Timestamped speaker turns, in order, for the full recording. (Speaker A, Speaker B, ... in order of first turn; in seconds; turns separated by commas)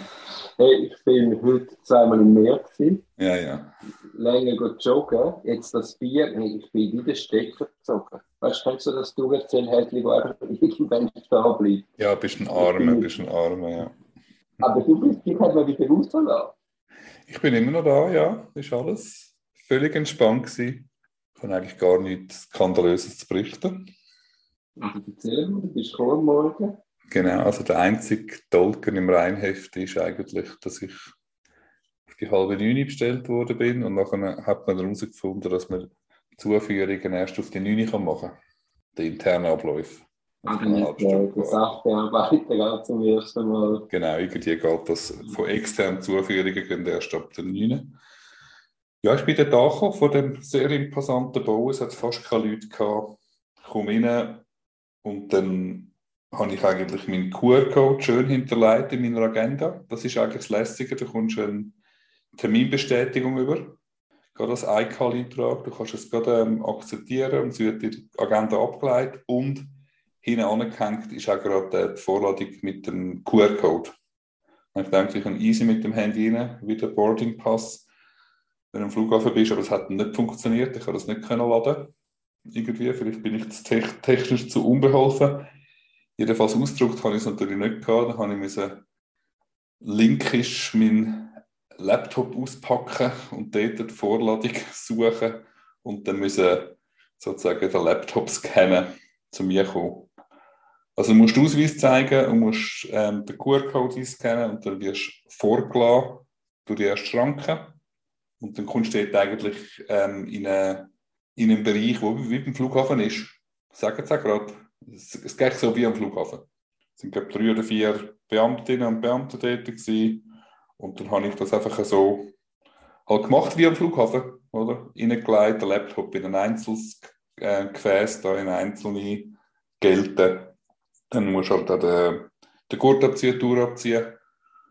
Speaker A: 0.6-3.0, Speaker B: 3.2-3.7, Speaker A: 4.1-11.9, Speaker B: 12.0-14.0, Speaker A: 12.6-13.2, Speaker A: 14.6-16.6, Speaker B: 17.3-23.8, Speaker A: 24.8-26.8, Speaker B: 27.1-31.0, Speaker B: 32.1-38.4, Speaker B: 38.9-41.7, Speaker A: 40.5-43.9, Speaker B: 43.9-48.0, Speaker B: 49.0-54.5, Speaker B: 55.0-61.8, Speaker B: 62.4-63.8, Speaker B: 64.3-69.7, Speaker B: 70.2-74.0, Speaker B: 74.7-77.9, Speaker B: 78.7-81.9, Speaker B: 82.5-85.5, Speaker B: 86.2-88.8, Speaker B: 89.8-100.1, Speaker B: 101.0-107.8, Speaker B: 108.4-116.4, Speaker B: 117.0-120.2, Speaker B: 120.8-122.3, Speaker B: 123.1-130.6, Speaker B: 131.1-134.2